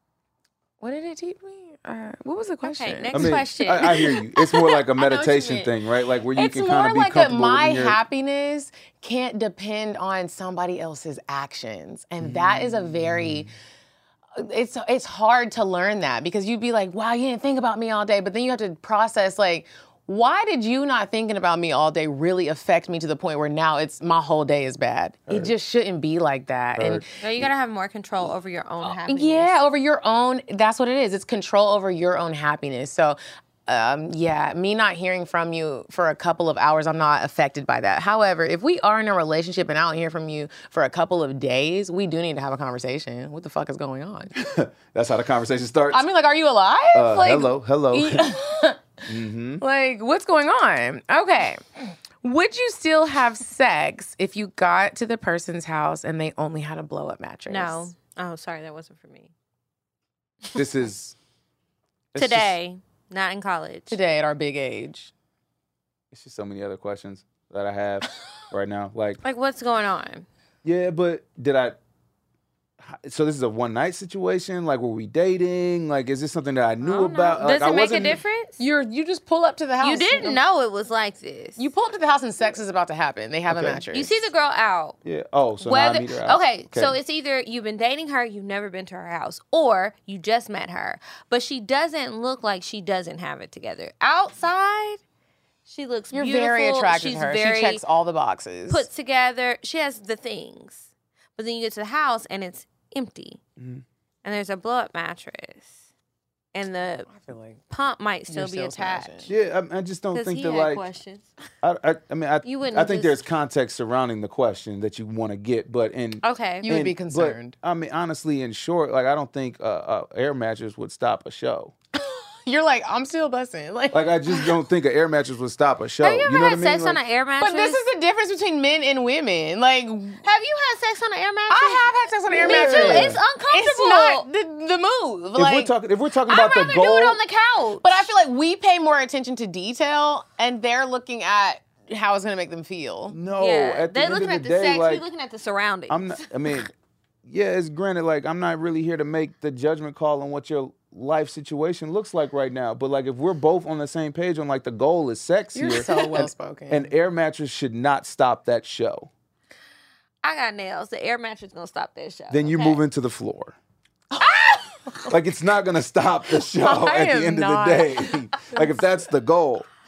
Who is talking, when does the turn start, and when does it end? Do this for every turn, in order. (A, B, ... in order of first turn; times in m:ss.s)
0:00.8-0:05.7 A
0:02.6-0:04.0 B
0:03.1-0:08.0 C
0:06.3-0:13.5 A
0:12.2-0:13.5 C
0:14.4-0:27.0 A
0:25.3-0:25.5 C
0:26.8-0:27.5 C
0:27.2-0:29.6 B
0:28.8-0:44.3 A
0:44.4-0:46.1 C
0:45.9-0:48.9 A
0:46.9-0:48.4 C
0:49.0-0:49.6 C
0:49.6-0:51.6 A
0:52.2-0:57.9 A
0:57.5-0:59.3 B
1:00.6-1:01.2 C
1:02.1-1:02.6 C
1:02.2-1:04.0 B
1:03.9-1:05.1 A
1:06.1-1:09.2 C
1:09.2-1:10.3 B
1:10.6-1:11.8 C
1:12.8-1:18.2 C
1:16.8-1:18.6 B
1:18.6-1:20.4 A
1:19.8-1:21.7 B
1:21.6-1:24.3 A
1:23.5-1:23.8 C
1:23.9-1:25.0 B
1:25.0-1:27.0 C
1:25.6-1:35.0 B
1:35.7-1:37.8 B
1:36.1-1:38.8 A
1:38.7-1:43.4 B
1:43.6-1:43.8 C
1:44.2-1:45.8 B
1:46.5-1:47.1 B
1:47.1-1:47.6 A
1:47.7-1:49.3 B
1:48.3-1:49.3 A
1:49.3-1:50.8 C
1:50.1-1:51.3 B
1:51.6-2:01.7 C
1:52.4-1:53.2 B
1:56.2-1:56.7 B
1:56.6-1:57.6 A
2:02.0-2:04.1 A
2:03.9-2:07.0 C
2:06.0-2:07.8 B
2:07.4-2:10.2 A
2:10.2-2:14.3 B
2:11.5-2:15.7 A
2:12.3-2:13.2 C
2:15.4-2:17.2 C
2:16.3-2:18.1 B
2:17.8-2:23.2 A
2:23.1-2:25.0 C
2:23.3-2:26.7 B
2:25.9-2:26.7 C
2:27.2-2:39.1 C
2:35.5-2:36.9 A
2:40.2-2:42.8 B
2:42.3-2:43.6 C
2:44.1-2:45.1 A
2:44.2-2:44.6 B
2:45.1-2:49.7 C
2:46.5-2:48.6 A